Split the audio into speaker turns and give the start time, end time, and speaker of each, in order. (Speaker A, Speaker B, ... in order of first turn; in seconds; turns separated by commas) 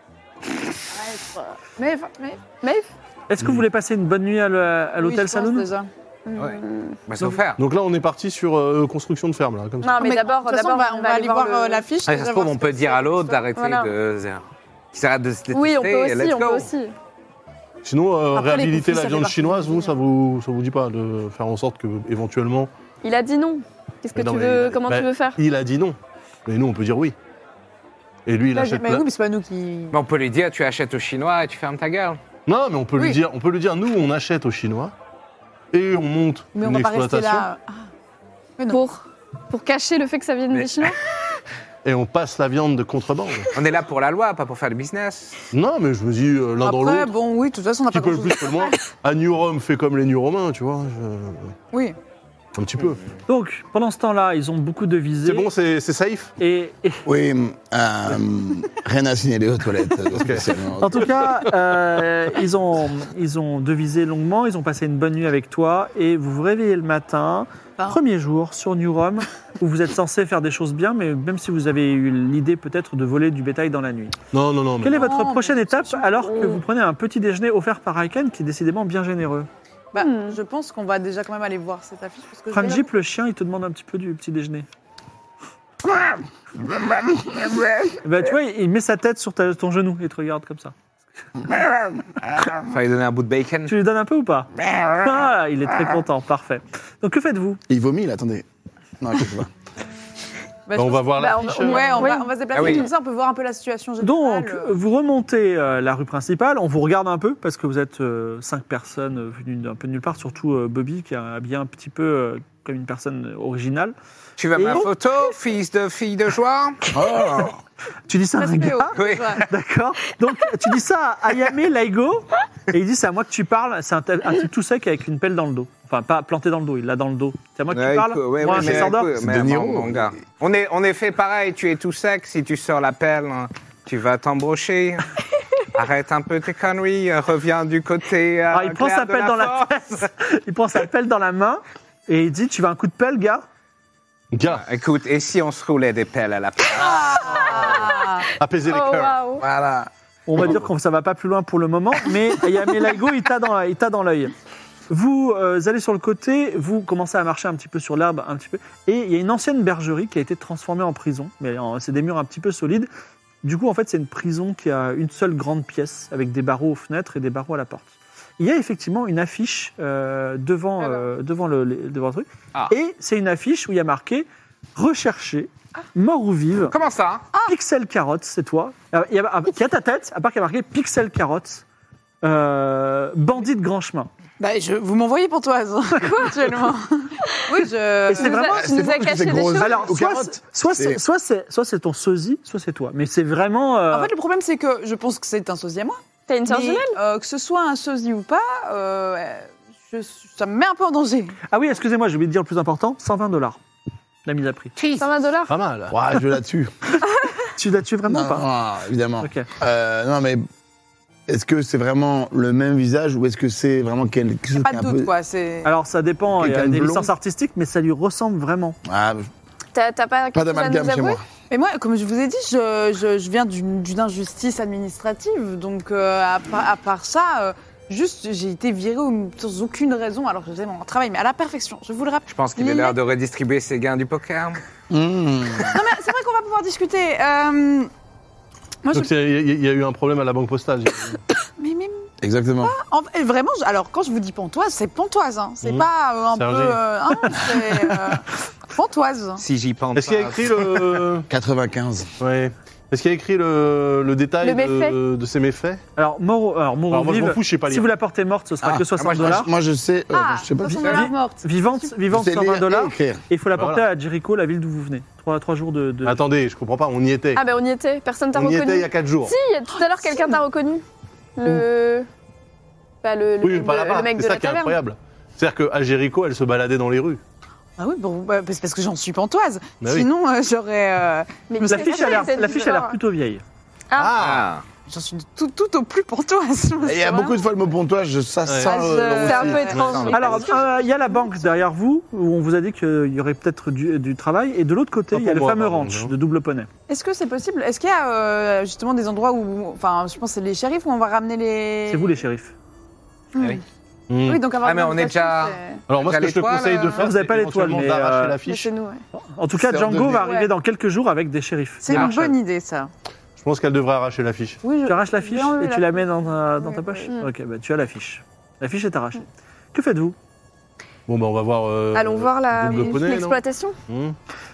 Speaker A: 0.9-2.4, Speaker B: 2.6-2.9, Speaker C: 3.3-5.7, Speaker A: 5.0-6.5, Speaker B: 6.4-7.0, Speaker D: 7.1-7.6, Speaker E: 7.6-10.0, Speaker B: 9.8-11.8, Speaker A: 10.0-13.5, Speaker D: 12.1-16.7, Speaker B: 13.6-13.9, Speaker B: 15.5-16.9, Speaker E: 17.8-22.7, Speaker A: 18.3-19.9, Speaker B: 23.0-25.4, Speaker E: 24.2-27.1, Speaker E: 28.3-29.1, Speaker A: 28.5-29.9, Speaker D: 29.9-32.2, Speaker E: 32.5-34.9, Speaker E: 35.7-37.5, Speaker A: 36.5-37.9, Speaker A: 38.6-38.8, Speaker B: 38.7-41.0, Speaker E: 41.8-43.5, Speaker D: 43.5-45.4, Speaker E: 45.5-47.1, Speaker A: 46.6-48.8, Speaker E: 47.9-51.5, Speaker A: 51.7-52.0, Speaker E: 52.6-53.0, Speaker C: 53.3-55.5, Speaker E: 55.2-56.3, Speaker C: 56.4-57.0, Speaker F: 57.1-61.2, Speaker E: 60.2-60.5, Speaker C: 60.8-74.2, Speaker E: 74.3-75.2, Speaker C: 74.8-79.5, Speaker A: 75.0-76.6, Speaker A: 79.9-82.9, Speaker B: 80.0-80.4, Speaker C: 82.5-84.7, Speaker F: 86.8-87.7, Speaker C: 88.0-90.8, Speaker F: 91.5-92.6, Speaker D: 92.7-93.7, Speaker C: 93.7-97.6, Speaker F: 97.7-98.5, Speaker F: 99.0-99.5, Speaker A: 100.7-104.7, Speaker E: 100.7-102.1, Speaker B: 101.2-102.9, Speaker D: 102.5-102.9, Speaker C: 104.0-114.0, Speaker D: 114.4-116.8, Speaker C: 114.6-114.9, Speaker F: 116.9-117.6, Speaker C: 118.1-119.0, Speaker A: 118.4-119.5, Speaker D: 119.0-119.5, Speaker C: 119.5-129.1, Speaker D: 127.7-135.1, Speaker F: 128.5-130.2, Speaker D: 135.7-140.0, Speaker C: 138.5-143.4, Speaker E: 144.3-144.6, Speaker D: 144.5-147.9, Speaker A: 146.8-148.3, Speaker E: 148.4-149.2, Speaker B: 148.7-149.4, Speaker D: 149.4-149.8, Speaker C: 150.3-154.3, Speaker C: 154.9-162.9, Speaker C: 163.4-176.8, Speaker B: 170.8-171.1, Speaker D: 176.7-177.2, Speaker C: 177.5-181.6, Speaker C: 182.2-184.1, Speaker A: 184.4-188.4, Speaker C: 188.1-194.1, Speaker B: 188.2-189.9, Speaker F: 188.5-191.0, Speaker A: 193.9-201.4, Speaker B: 196.3-197.0, Speaker C: 201.5-203.6, Speaker C: 204.3-204.7, Speaker D: 204.8-205.1, Speaker B: 205.0-205.6, Speaker E: 205.5-206.0, Speaker F: 205.9-206.7, Speaker C: 207.6-208.5, Speaker F: 208.1-210.4, Speaker C: 209.2-209.5, Speaker F: 211.3-215.1, Speaker A: 214.6-215.7, Speaker C: 215.6-218.8, Speaker F: 216.4-217.1, Speaker F: 218.8-219.3, Speaker B: 219.7-221.2, Speaker F: 220.3-221.2, Speaker A: 221.5-233.0, Speaker D: 232.3-234.6, Speaker F: 234.9-235.8, Speaker A: 235.6-237.9, Speaker A: 238.8-239.1, Speaker E: 238.9-241.2, Speaker A: 241.6-242.1, Speaker F: 242.2-242.8, Speaker A: 242.6-249.4, Speaker E: 245.6-246.8, Speaker C: 247.5-247.9, Speaker D: 249.4-251.0, Speaker E: 249.9-251.3, Speaker F: 251.3-252.1, Speaker E: 252.2-255.8, Speaker B: 254.4-255.0, Speaker C: 256.0-259.5, Speaker E: 256.9-257.9, Speaker F: 258.6-261.0, Speaker D: 259.0-259.5, Speaker A: 260.1-261.9, Speaker C: 260.7-266.2, Speaker F: 262.1-263.2, Speaker E: 263.5-263.9, Speaker E: 266.0-267.4, Speaker B: 267.4-270.8, Speaker E: 268.3-269.4, Speaker A: 269.8-270.4, Speaker B: 271.4-272.1, Speaker B: 273.0-274.8, Speaker E: 273.4-277.2, Speaker A: 277.8-282.7, Speaker E: 279.8-280.1, Speaker B: 281.5-283.0, Speaker C: 281.7-283.4, Speaker B: 283.9-284.2, Speaker E: 283.9-284.6, Speaker D: 284.2-284.6, Speaker A: 284.9-287.4, Speaker F: 286.8-289.6, Speaker E: 288.5-290.1, Speaker A: 288.6-291.3, Speaker B: 289.1-290.7, Speaker C: 290.1-296.7, Speaker E: 295.1-296.1, Speaker A: 296.9-302.2, Speaker C: 301.9-302.5, Speaker A: 303.4-303.6, Speaker E: 304.1-304.5, Speaker A: 304.2-305.8, Speaker D: 304.5-307.1, Speaker E: 305.9-308.7, Speaker C: 307.0-308.4, Speaker B: 308.4-309.0, Speaker C: 309.1-312.4, Speaker F: 309.5-310.3, Speaker A: 310.2-310.5, Speaker A: 311.8-312.9, Speaker E: 313.4-314.6, Speaker A: 314.6-317.0, Speaker C: 314.9-320.2, Speaker E: 321.1-324.2, Speaker B: 321.9-323.8